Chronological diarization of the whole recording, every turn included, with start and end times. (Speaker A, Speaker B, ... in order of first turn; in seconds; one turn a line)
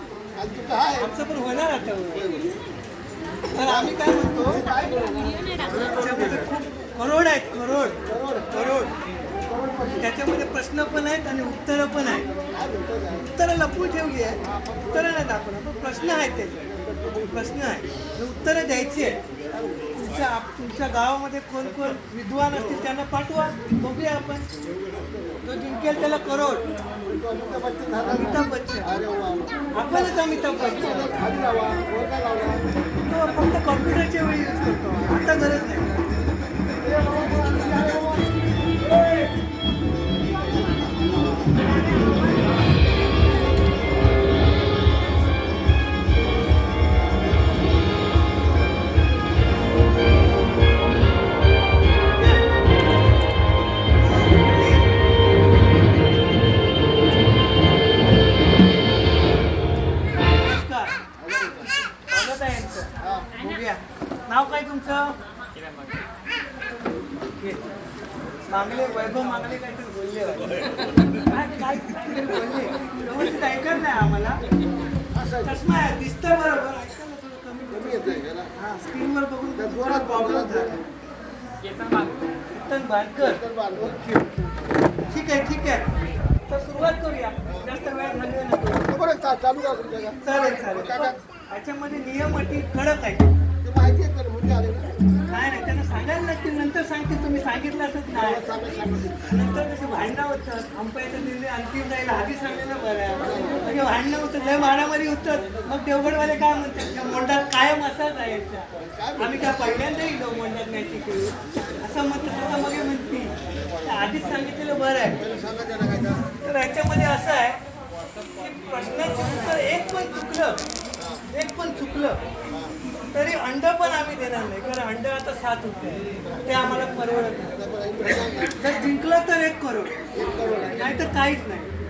Speaker A: 0.3-1.1
Speaker B: 1.0-2.4
Speaker A: 2.1-2.5
Speaker B: 3.5-4.6
Speaker A: 3.6-6.5
Speaker B: 5.8-8.9
Speaker A: 8.0-8.6
Speaker A: 9.4-10.0
Speaker B: 10.0-12.3
Speaker A: 12.5-13.3
Speaker B: 13.3-16.6
Speaker A: 14.5-15.0
Speaker A: 16.7-17.4
Speaker B: 17.3-19.2
Speaker B: 19.9-24.4
Speaker A: 24.8-25.4
Speaker B: 25.4-26.6
Speaker A: 27.0-32.6
Speaker B: 28.0-28.9
Speaker B: 29.7-31.1
Speaker B: 33.1-35.9
Speaker A: 36.7-38.3
Speaker B: 52.2-52.5
Speaker B: 54.0-54.9
Speaker B: 60.4-60.9
Speaker A: 61.2-61.7
Speaker B: 62.1-65.2
Speaker A: 63.0-63.3
Speaker B: 67.4-67.6
Speaker B: 68.5-74.4
Speaker A: 75.1-75.5
Speaker B: 75.4-80.8
Speaker A: 77.7-78.5
Speaker A: 79.6-80.8
Speaker B: 82.5-83.4
Speaker A: 83.2-84.1
Speaker B: 84.0-84.5
Speaker B: 85.1-85.9
Speaker B: 86.5-88.9
Speaker A: 88.8-91.1
Speaker B: 90.2-93.3
Speaker A: 93.6-95.0
Speaker B: 95.3-98.4
Speaker A: 98.1-99.3
Speaker B: 99.2-115.2
Speaker A: 103.2-103.6
Speaker A: 108.8-109.7
Speaker A: 115.2-116.3
Speaker B: 116.3-117.6
Speaker B: 118.3-120.6
Speaker B: 121.3-122.2
Speaker B: 123.1-127.5
Speaker A: 127.5-128.6
Speaker B: 128.1-129.9
Speaker A: 130.1-131.0
Speaker B: 130.6-131.7